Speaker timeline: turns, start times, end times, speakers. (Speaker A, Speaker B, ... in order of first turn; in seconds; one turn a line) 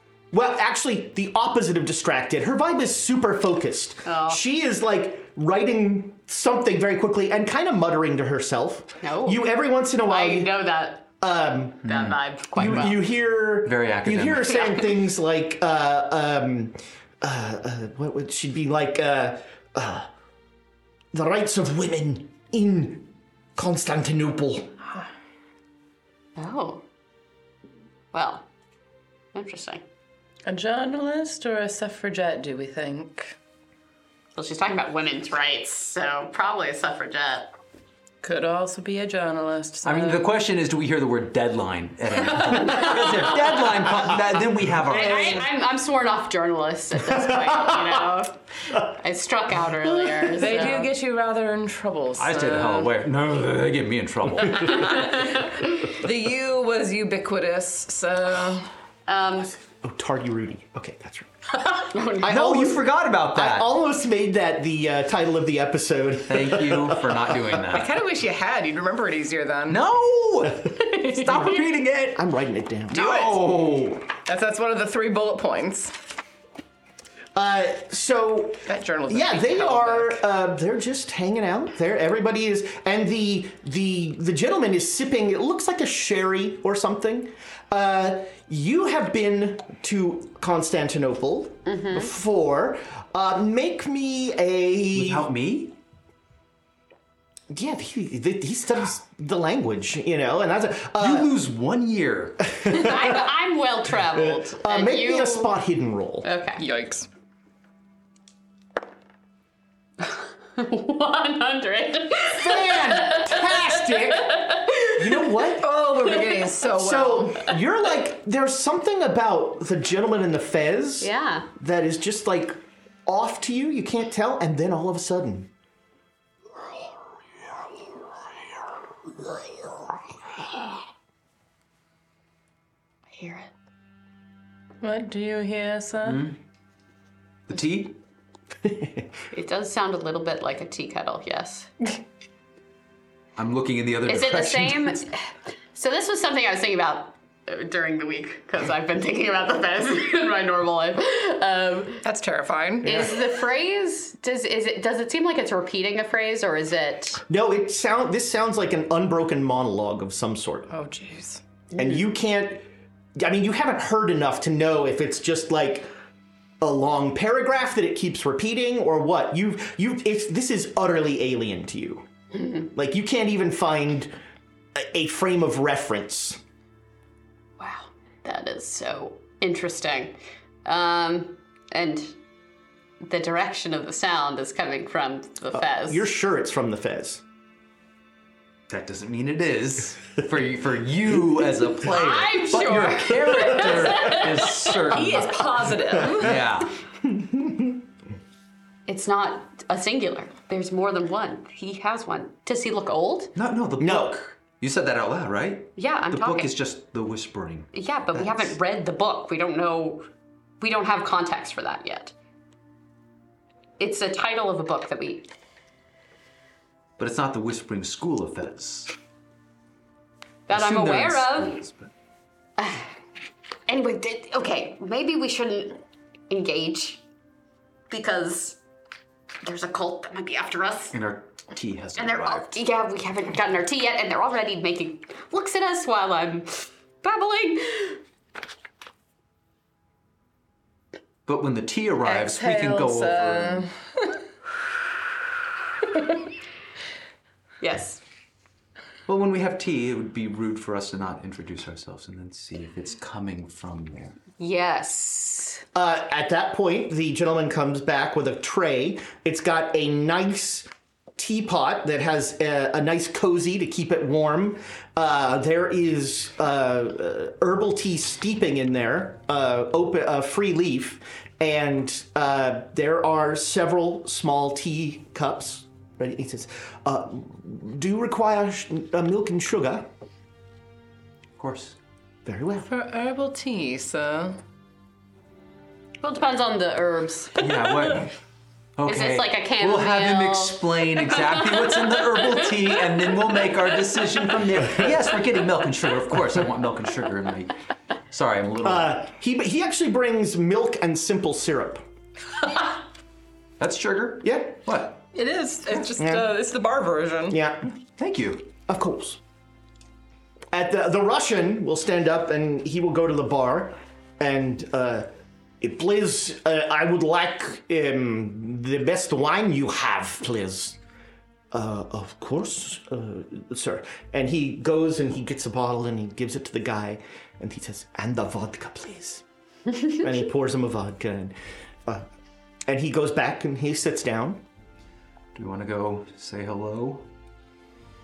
Speaker A: 0.3-10.5
Speaker B: 4.0-4.4
Speaker B: 9.0-9.4
Speaker B: 10.1-11.1
Speaker A: 11.2-11.9
Speaker B: 11.8-13.0
Speaker C: 11.8-12.9
Speaker A: 12.5-20.1
Speaker C: 13.6-14.5
Speaker B: 14.5-14.8
Speaker A: 21.1-24.7
Speaker B: 26.4-26.8
Speaker B: 28.1-28.5
Speaker B: 29.3-29.8
Speaker D: 30.4-33.4
Speaker B: 34.4-37.5
Speaker D: 38.2-40.3
Speaker C: 39.8-45.5
Speaker B: 42.8-43.6
Speaker B: 44.9-50.9
Speaker A: 47.2-48.0
Speaker D: 50.3-52.9
Speaker C: 52.2-55.1
Speaker D: 54.7-58.7
Speaker B: 54.9-55.5
Speaker B: 59.1-59.5
Speaker A: 59.8-61.3
Speaker B: 61.6-62.3
Speaker A: 62.2-67.5
Speaker C: 62.2-63.7
Speaker C: 66.3-67.9
Speaker D: 67.7-69.8
Speaker C: 69.7-72.2
Speaker A: 71.3-71.6
Speaker A: 72.1-73.0
Speaker C: 72.9-74.0
Speaker D: 72.9-73.4
Speaker D: 74.2-75.9
Speaker A: 77.3-95.3
Speaker D: 78.7-80.2
Speaker B: 91.7-92.1
Speaker C: 94.9-95.8
Speaker A: 97.5-101.3
Speaker C: 101.0-102.4
Speaker A: 102.5-103.2
Speaker B: 102.6-105.5
Speaker A: 104.1-106.3
Speaker B: 106.2-106.6
Speaker D: 106.6-107.1
Speaker B: 110.0-115.0
Speaker A: 112.3-115.7
Speaker D: 115.6-117.5
Speaker A: 116.7-125.5
Speaker B: 121.0-121.5
Speaker B: 133.2-133.5
Speaker D: 134.8-136.2
Speaker C: 136.0-136.4
Speaker C: 137.5-138.0
Speaker A: 138.6-139.0
Speaker B: 139.3-141.7
Speaker C: 143.3-145.0
Speaker B: 144.1-152.0
Speaker D: 152.0-152.9
Speaker A: 152.8-153.1
Speaker B: 152.8-157.2
Speaker A: 157.3-160.7
Speaker D: 160.7-161.4
Speaker B: 161.7-162.0
Speaker A: 161.8-162.7
Speaker A: 163.2-165.9
Speaker A: 166.6-172.0
Speaker A: 172.6-174.1
Speaker A: 174.8-176.4
Speaker B: 177.6-182.2
Speaker B: 183.0-186.1
Speaker A: 185.5-187.2
Speaker C: 188.7-196.7
Speaker B: 191.8-194.8
Speaker D: 194.9-196.4
Speaker A: 197.1-197.7
Speaker B: 198.9-203.3
Speaker C: 203.3-207.7
Speaker A: 203.8-204.2
Speaker B: 205.8-206.5
Speaker B: 207.7-210.1
Speaker B: 210.6-212.1
Speaker B: 213.8-215.3
Speaker C: 217.0-218.9
Speaker B: 220.5-221.6
Speaker C: 220.5-221.9
Speaker B: 222.6-222.9
Speaker B: 223.7-225.8
Speaker B: 226.3-227.0
Speaker B: 227.9-228.6
Speaker B: 229.4-230.9
Speaker C: 230.9-232.6
Speaker B: 231.9-238.0
Speaker C: 241.2-243.7
Speaker D: 242.0-244.1
Speaker B: 247.6-248.0
Speaker C: 249.1-254.2
Speaker B: 254.4-255.6
Speaker A: 255.7-279.9
Speaker C: 281.4-281.8
Speaker A: 282.2-282.7
Speaker D: 282.7-284.4
Speaker B: 286.0-287.5
Speaker C: 287.4-288.1
Speaker C: 288.8-297.6
Speaker B: 288.9-290.6
Speaker C: 298.1-299.0
Speaker A: 298.6-301.8
Speaker C: 303.6-305.0
Speaker A: 304.2-304.6
Speaker D: 305.1-307.4
Speaker A: 306.0-306.4
Speaker A: 307.3-307.7
Speaker C: 308.0-308.5
Speaker A: 308.6-309.2
Speaker A: 310.5-315.1
Speaker A: 315.6-320.8
Speaker A: 321.5-329.2
Speaker A: 329.9-331.3
Speaker A: 332.7-334.4
Speaker C: 335.3-337.1